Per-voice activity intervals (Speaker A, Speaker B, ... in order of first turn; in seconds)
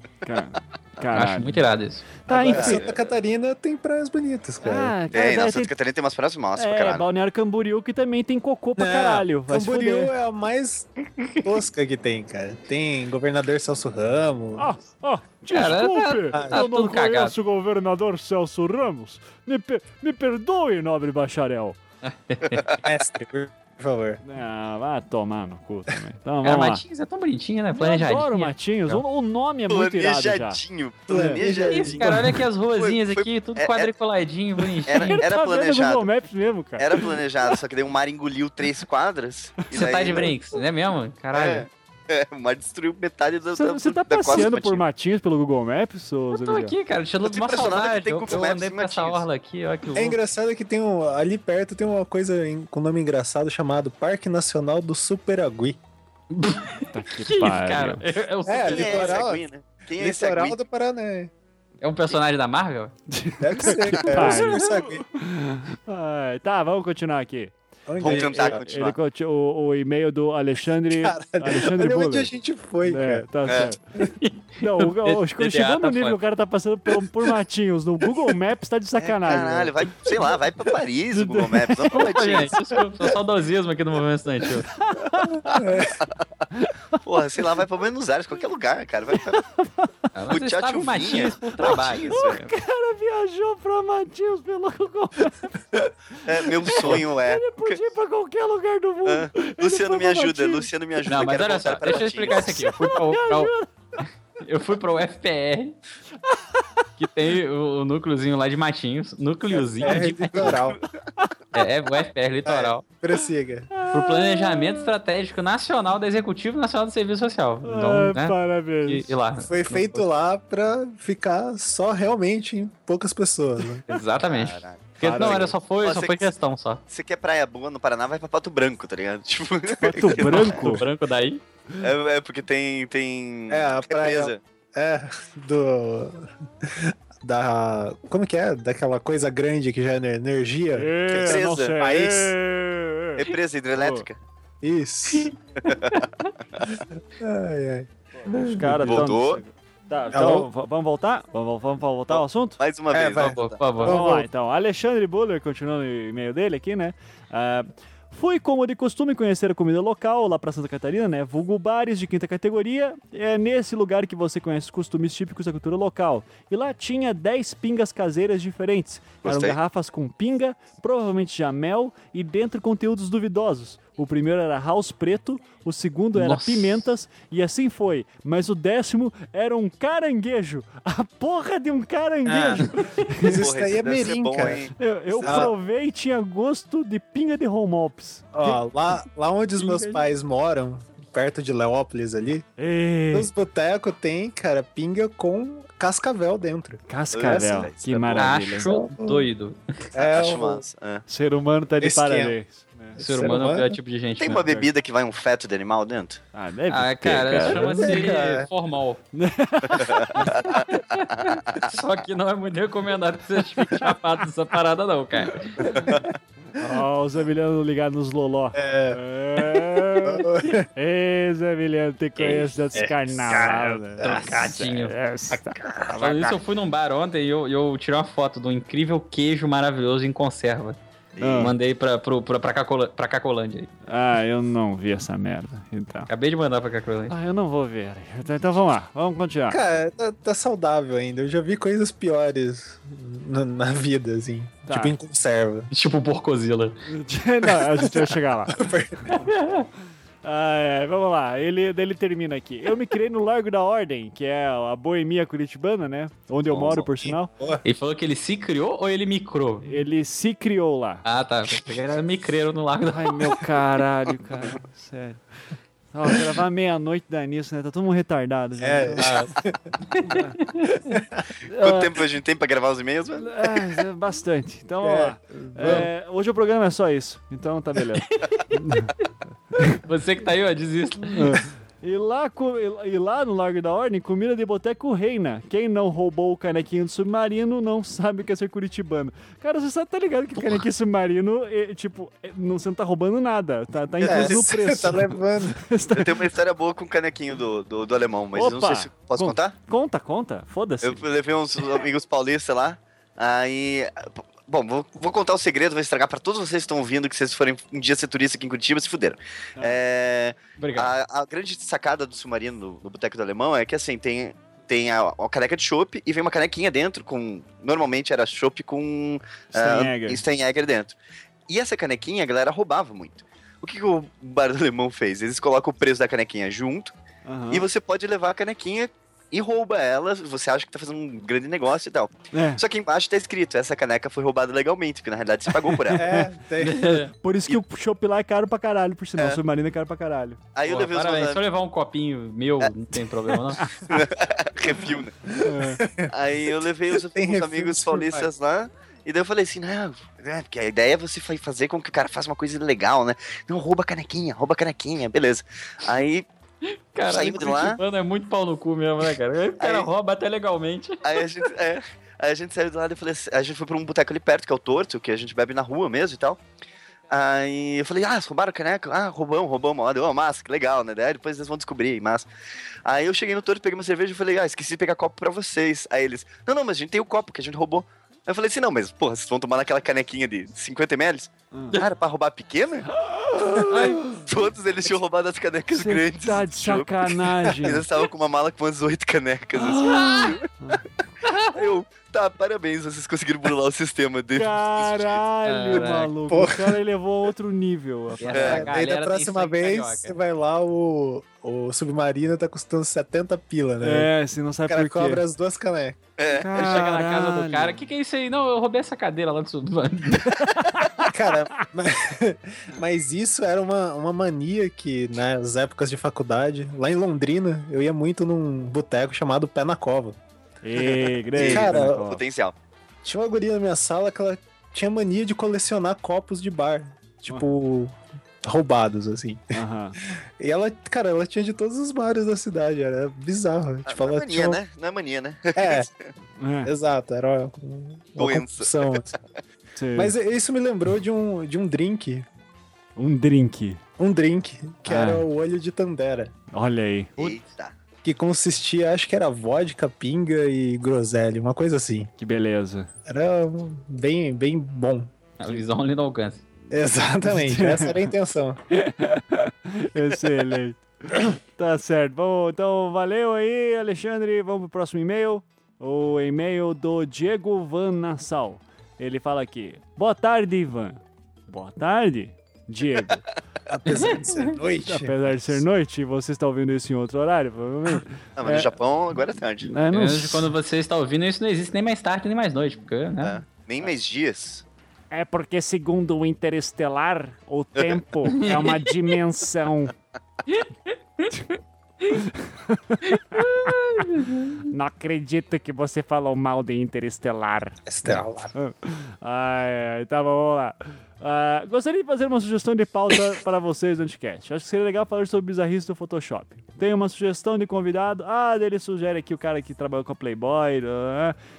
Speaker A: 0.2-1.7, 2.2-2.8, 4.6-5.7, 6.6-10.1, 14.6-21.8, 24.2-26.8, 27.7-30.6, 35.0-36.9, 43.5-46.8, 56.9-58.0, 63.1-72.3, 72.8-73.8, 74.6-79.8, 81.1-81.9, 84.8-85.6, 89.3-90.1, 92.1-95.6, 96.5-100.7, 102.3-103.7, 113.7-114.9, 117.6-119.1, 125.0-125.5, 129.8-130.8, 140.8-144.1, 148.4-152.6, 153.8-183.4, 184.8-188.6, 192.6-193.3, 196.9-198.7, 201.1-203.0, 206.3-208.0, 209.1-210.5, 216.6-226.3, 231.2-231.5, 233.9-236.1, 237.1-239.6, 244.7-245.0, 246.9-248.6, 250.2-257.3, 259.6-261.0, 262.9-265.2, 265.9-269.2, 270.0-270.4, 271.5-272.0, 273.2-278.9, 281.2-296.2, 298.3-301.0, 319.5-320.2, 327.3-327.6, 332.3-332.6, 335.7-340.4, 345.4-345.8, 383.0-384.2, 385.7-387.8, 389.6-390.9, 394.4-398.6, 403.8-405.2, 406.3-407.8, 410.3-411.1, 420.6-422.2, 429.5-430.0, 436.4-436.7, 439.8-440.1, 443.0-443.8, 444.9-445.2, 446.5-447.3, 452.2-452.9, 457.3-458.1, 458.7-473.2, 474.9-478.7, 479.6-480.5, 485.1-489.9, 492.1-494.1, 494.6-511.4
Speaker B: 1.1-2.2, 15.5-17.3, 22.0-22.7, 26.4-29.0, 31.7-35.2, 39.7-41.7, 46.4-50.2, 56.3-59.2, 61.8-62.9, 64.1-64.7, 74.2-76.2, 81.9-84.7, 90.2-92.5, 101.1-103.5, 104.4-105.8, 107.0-110.6, 111.5-112.8, 113.9-120.0, 123.9-126.8, 130.1-131.4, 145.1-146.3, 153.2-154.0, 176.2-176.8, 189.6-190.0, 198.2-199.6, 203.0-204.5, 206.7-209.0, 210.7-215.7, 224.0-224.9, 225.9-230.8, 231.4-233.7, 236.1-237.1, 245.7-246.8, 249.2-249.7, 257.6-259.8, 261.0-263.4, 269.0-269.3, 269.9-270.8, 278.1-278.4, 279.8-281.5, 310.6-310.9, 336.6-337.1, 340.7-343.7, 356.7-361.2, 383.7-384.1, 389.9-390.4, 391.2-391.5, 395.4-396.1, 398.2-400.2, 406.6-410.5, 455.4-456.4, 473.9-474.6, 479.9-483.4, 488.3-488.9, 490.5-492.2, 493.1-494.7
Speaker C: 2.3-5.0, 8.8-10.9, 11.4-14.7, 16.3-16.6, 22.8-24.2, 31.1-32.1, 49.9-55.8, 58.5-59.4, 60.0-61.3, 63.4-65.0, 67.9-68.6, 70.9-73.3, 85.5-86.0, 109.5-110.8, 112.5-113.7, 119.4-123.8, 133.5-142.3, 144.6-145.3, 147.2-149.1, 150.1-150.5, 152.9-154.3, 182.3-185.5, 188.3-192.5, 193.1-197.7, 198.6-199.3, 199.9-200.6, 201.8-202.4, 203.0-203.7, 207.4-208.5, 218.5-220.7, 222.7-224.5, 225.6-226.2, 239.5-245.7, 247.6-249.2, 256.7-257.6, 268.6-269.6, 270.9-271.2, 274.8-275.9, 294.0-295.6, 335.9-336.9, 345.4-346.1, 346.9-348.3, 396.3-396.8, 398.3-404.1, 404.7-406.0, 411.0-420.2, 420.8-422.1, 423.0-434.6, 435.6-435.9, 436.6-439.2, 440.0-442.3, 444.0-446.3, 448.0-452.1, 453.1-455.1, 456.7-458.6, 473.7-475.6, 497.9-498.5
Speaker D: 2.4-3.0, 5.1-7.0, 22.5-22.8, 29.7-33.9, 34.9-36.1, 36.8-40.3, 41.3-44.8, 47.2-49.2, 58.6-60.6, 68.0-69.0, 73.5-73.7, 79.2-82.6, 87.0-89.4, 90.3-92.4, 96.2-97.8, 99.0-102.6, 110.4-110.8, 124.2-126.3, 126.9-130.6, 131.8-134.4, 141.1-141.9, 143.2-144.2, 145.7-146.0, 148.8-149.4, 152.1-153.6, 169.2-169.6, 183.4-185.5, 197.1-198.3, 199.9-201.1, 204.2-206.2, 209.7-210.6, 211.2-211.7, 231.2-231.5, 256.5-256.8, 271.6-273.4, 294.0-294.5, 295.9-299.5, 300.8-321.0, 321.5-326.9, 327.5-336.1, 340.6-341.4, 343.8-345.1, 346.1-356.3, 357.1-357.8, 359.6-359.9, 361.0-366.4, 367.1-372.3, 372.9-382.9, 384.2-390.4, 391.5-395.2, 398.3-398.6, 406.2-406.6, 421.4-422.6, 433.9-435.9, 438.2-439.2, 447.2-447.8, 478.4-479.7, 483.2-484.6